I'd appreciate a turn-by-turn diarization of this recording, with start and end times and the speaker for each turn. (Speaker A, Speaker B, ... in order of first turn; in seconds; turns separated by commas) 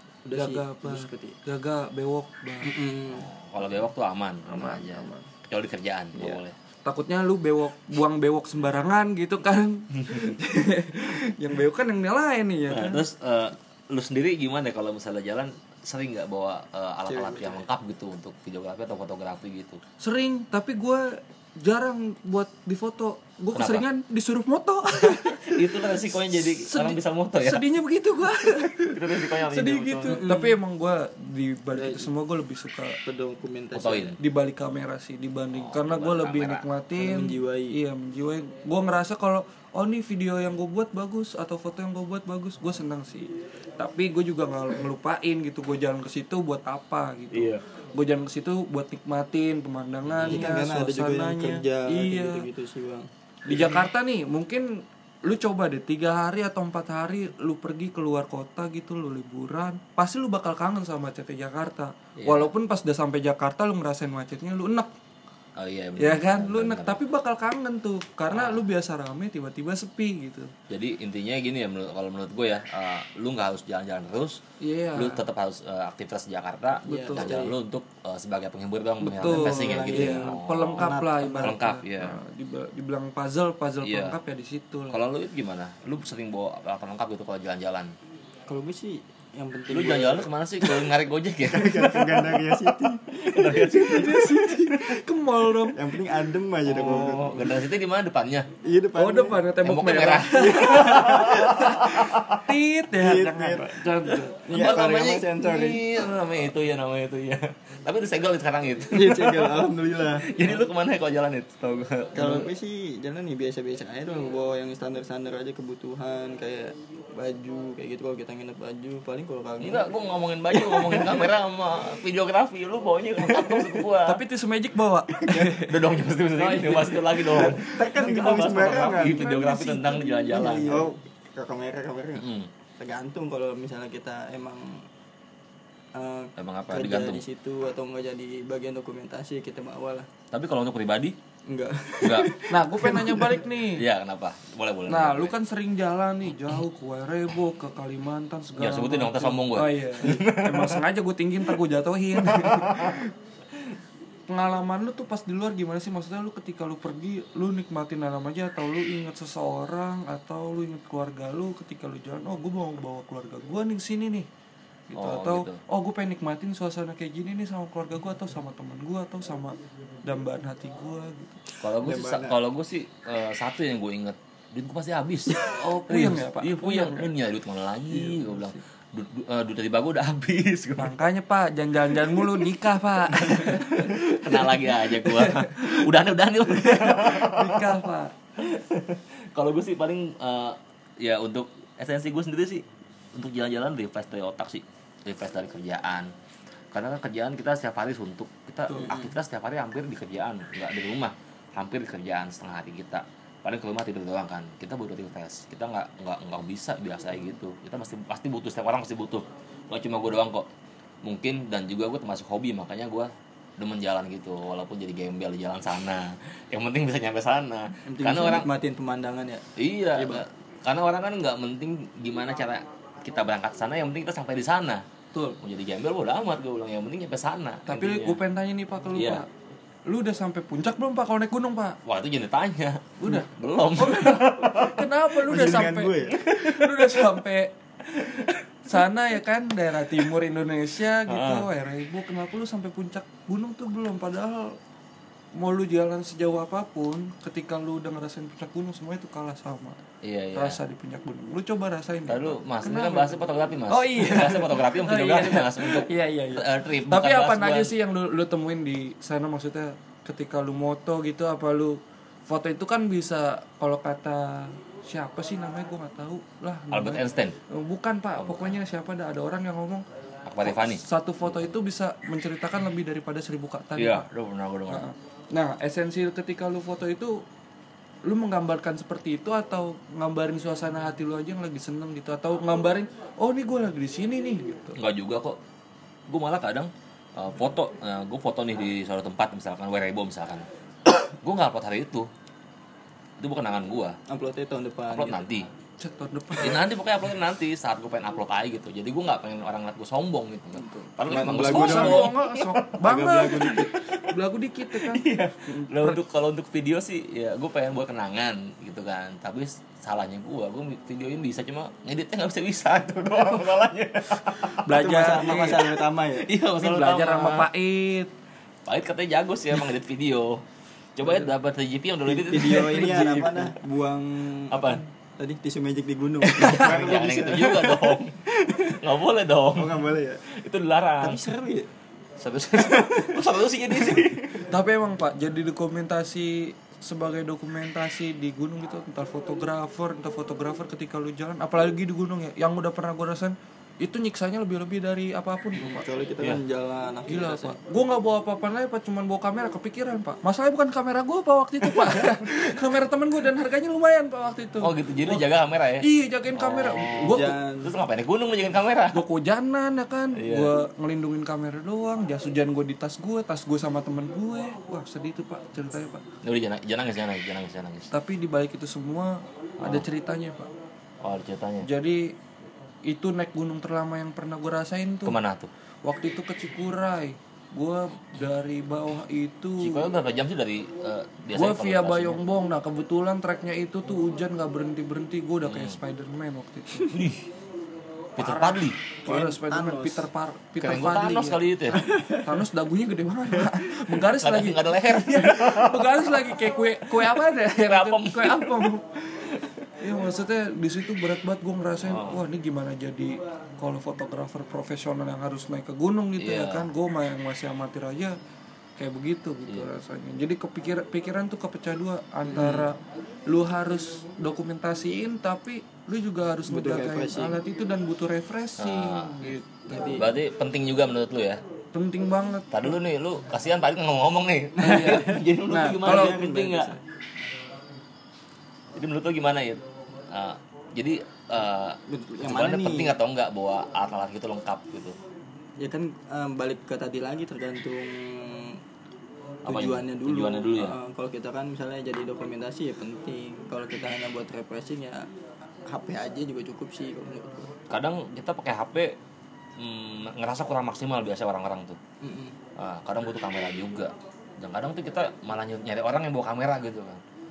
Speaker A: 0.3-1.4, Speaker B: 0.3-2.8, Speaker A: 2.6-3.3, Speaker C: 3.1-6.5, Speaker B: 4.5-5.3, Speaker B: 6.2-13.0, Speaker C: 12.7-19.8, Speaker A: 17.1-17.6, Speaker B: 20.0-33.0, Speaker C: 23.6-23.8, Speaker C: 25.1-27.6, Speaker C: 28.5-30.2, Speaker A: 30.1-30.6, Speaker A: 31.8-32.1, Speaker A: 33.0-34.2, Speaker C: 33.7-34.2, Speaker B: 34.2-52.5, Speaker C: 35.5-36.7, Speaker A: 37.0-37.8, Speaker C: 47.3-47.6, Speaker C: 50.1-50.5, Speaker A: 50.2-53.8, Speaker B: 53.5-64.9, Speaker C: 62.2-62.5, Speaker C: 65.6-67.0, Speaker B: 66.0-70.5, Speaker C: 68.3-68.6, Speaker C: 70.7-74.4, Speaker B: 74.6-75.3, Speaker C: 75.0-82.2, Speaker B: 76.9-77.4, Speaker A: 76.9-77.5, Speaker B: 79.0-85.0, Speaker A: 79.2-81.6, Speaker C: 83.8-84.2, Speaker C: 84.9-87.9, Speaker A: 88.5-90.9, Speaker C: 89.7-92.7, Speaker A: 91.4-94.6, Speaker C: 93.3-94.8, Speaker B: 93.6-95.8, Speaker A: 95.7-97.6, Speaker C: 96.7-98.5, Speaker A: 98.6-99.4, Speaker B: 99.0-104.4, Speaker C: 99.6-102.4, Speaker A: 100.3-101.8, Speaker A: 103.0-103.8, Speaker A: 104.4-105.9, Speaker C: 104.5-109.7, Speaker A: 108.9-110.6, Speaker C: 110.2-112.5, Speaker A: 112.2-119.9, Speaker C: 119.6-124.2, Speaker A: 120.5-121.3, Speaker A: 123.2-123.8, Speaker B: 124.0-125.8, Speaker C: 125.3-130.9, Speaker A: 126.4-129.3, Speaker B: 128.2-130.9, Speaker A: 130.4-132.3, Speaker C: 132.2-132.5, Speaker A: 132.8-134.9, Speaker A: 135.9-140.1, Speaker C: 136.4-137.2, Speaker C: 140.3-141.2, Speaker A: 141.5-143.3, Speaker C: 142.0-142.4, Speaker B: 142.5-143.8, Speaker C: 143.8-145.3, Speaker B: 144.9-153.1, Speaker C: 148.6-150.8, Speaker C: 152.2-153.0, Speaker B: 154.3-164.3, Speaker B: 164.9-171.5, Speaker C: 165.0-165.6, Speaker C: 171.6-180.9, Speaker A: 171.8-172.4, Speaker B: 175.4-177.1, Speaker B: 177.9-178.6, Speaker B: 180.8-185.9, Speaker C: 183.1-187.7, Speaker B: 186.4-188.2, Speaker C: 188.4-196.1, Speaker C: 196.7-210.5, Speaker A: 198.7-199.1, Speaker C: 211.0-218.5, Speaker A: 217.9-220.2, Speaker C: 219.6-224.8, Speaker B: 225.1-225.4, Speaker C: 225.4-228.2, Speaker B: 227.7-229.3, Speaker C: 229.0-229.2, Speaker B: 229.9-231.8, Speaker C: 231.8-234.9, Speaker B: 233.0-237.5, Speaker A: 235.3-236.2, Speaker C: 236.2-237.1, Speaker C: 237.9-238.4, Speaker B: 238.7-244.6, Speaker C: 241.1-241.5, Speaker B: 245.3-249.8, Speaker C: 250.0-250.6, Speaker B: 250.3-269.9, Speaker C: 252.1-257.7, Speaker C: 266.7-267.4, Speaker C: 268.2-268.6, Speaker C: 270.3-271.4, Speaker B: 270.4-274.1, Speaker C: 273.8-274.9, Speaker B: 274.7-277.2, Speaker B: 278.1-284.8, Speaker C: 284.8-285.4, Speaker C: 286.1-290.5, Speaker C: 291.0-292.1, Speaker C: 293.2-294.0, Speaker A: 294.1-295.2, Speaker C: 294.9-295.5, Speaker B: 295.8-296.7, Speaker C: 296.4-304.1, Speaker B: 300.6-306.0, Speaker A: 301.0-302.1, Speaker A: 302.8-303.7, Speaker C: 304.7-317.5, Speaker B: 314.6-315.7, Speaker A: 314.7-316.3, Speaker B: 316.6-318.1, Speaker C: 318.7-320.4, Speaker C: 321.0-323.5, Speaker A: 322.1-328.8, Speaker C: 324.5-324.8, Speaker C: 326.2-331.2, Speaker B: 326.4-326.7, Speaker A: 329.5-330.2, Speaker A: 331.0-331.7, Speaker C: 332.2-334.5, Speaker A: 332.6-333.2, Speaker B: 334.4-345.9, Speaker A: 345.6-347.6, Speaker B: 347.1-355.2, Speaker C: 354.6-359.0, Speaker B: 355.8-357.4, Speaker A: 357.0-357.8, Speaker B: 358.9-366.0, Speaker C: 360.2-360.5, Speaker C: 366.2-367.9, Speaker B: 367.9-370.5, Speaker C: 369.6-369.9, Speaker C: 371.0-371.7, Speaker B: 371.6-372.2, Speaker B: 372.9-375.2, Speaker C: 375.1-375.5, Speaker B: 375.8-379.9, Speaker C: 379.6-382.2, Speaker B: 381.3-387.0, Speaker C: 385.4-385.8, Speaker C: 386.8-387.2, Speaker B: 388.2-391.4, Speaker C: 388.2-388.8, Speaker A: 389.1-390.1, Speaker C: 390.6-391.9, Speaker A: 391.7-392.3, Speaker B: 392.1-399.0, Speaker C: 394.0-396.3, Speaker C: 396.9-399.6, Speaker B: 399.8-408.2, Speaker C: 401.8-402.2, Speaker C: 406.2-406.7, Speaker B: 408.8-420.1, Speaker A: 412.3-412.7, Speaker A: 416.5-417.4, Speaker C: 418.6-421.4, Speaker A: 419.7-420.1, Speaker B: 421.7-422.8, Speaker C: 422.5-426.8, Speaker B: 424.6-426.2, Speaker A: 424.7-426.8, Speaker C: 428.8-435.0, Speaker A: 431.9-433.0, Speaker A: 435.6-438.6, Speaker C: 439.5-440.8, Speaker A: 439.5-445.1, Speaker A: 445.6-447.5, Speaker C: 447.7-449.0, Speaker C: 449.6-451.8, Speaker A: 452.0-452.4, Speaker C: 452.6-457.0